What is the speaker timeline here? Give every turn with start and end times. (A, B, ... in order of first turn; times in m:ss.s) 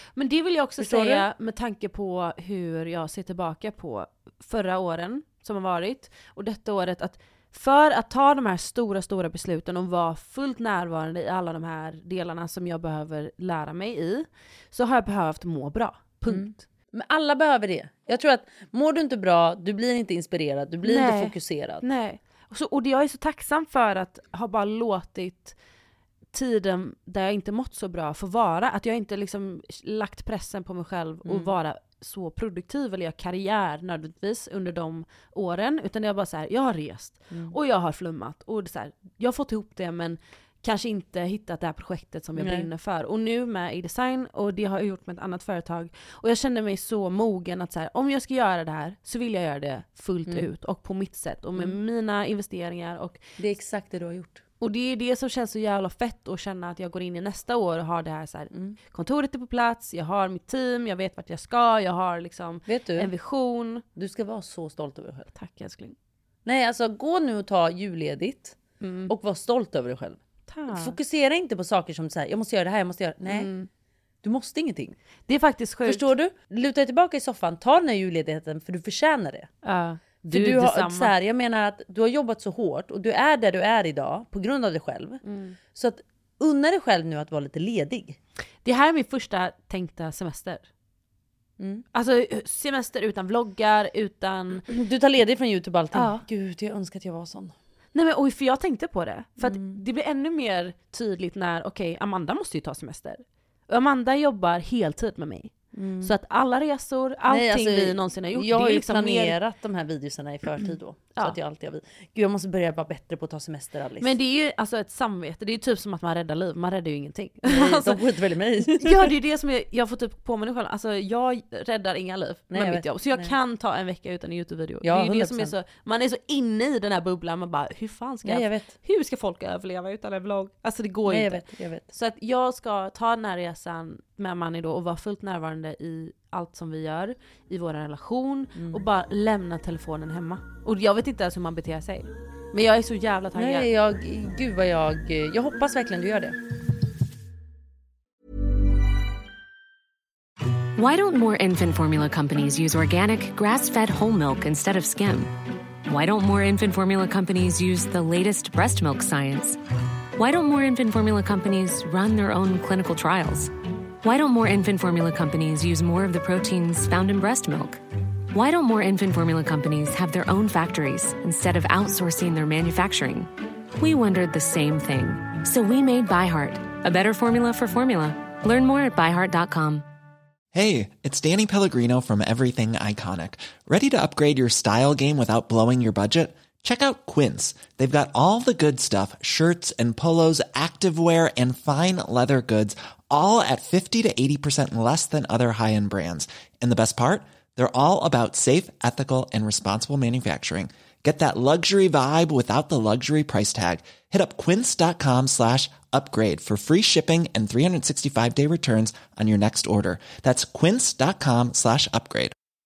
0:00.2-0:16.6 A
0:00.8-0:01.2 B
0:16.3-0:21.8 B
0:20.8-0:25.5 A
0:26.3-0:53.2 A
0:31.2-0:31.5 B
0:42.4-0:42.7 B
0:53.4-0:54.4 B
0:54.6-1:03.8 A
1:02.7-1:03.1 B
1:03.9-1:05.3 B
1:05.3-1:05.9 A
1:06.4-1:08.6 B
1:08.8-1:09.1 A
1:09.1-1:13.5 B
1:10.5-1:11.0 A
1:13.3-1:13.7 A
1:14.2-1:15.0 B
1:15.3-1:16.1 A
1:15.8-1:19.5 B
1:19.6-1:21.1 A
1:20.3-1:25.2 B
1:25.2-1:25.6 A
1:25.7-1:28.2 B
1:28.6-1:30.7 A
1:31.9-1:34.6 A
1:34.7-1:37.5 B
1:35.9-1:36.2 A
1:37.9-1:49.4 A
1:39.4-1:39.8 B
1:45.7-1:46.1 B
1:47.3-1:54.1 B
1:54.0-1:58.0 A
1:57.5-1:59.1 B
1:58.6-2:23.7 A
2:02.5-2:03.3 B
2:04.8-2:05.5 B
2:08.2-2:08.7 B
2:11.1-2:11.9 B
2:18.6-2:18.8 B
2:23.3-2:26.4 B
2:30.8-2:35.3 C
2:35.8-2:39.6 C
2:40.2-2:43.5 C
2:44.0-2:47.8 C
2:48.3-2:59.8 C
3:00.5-3:32.3 D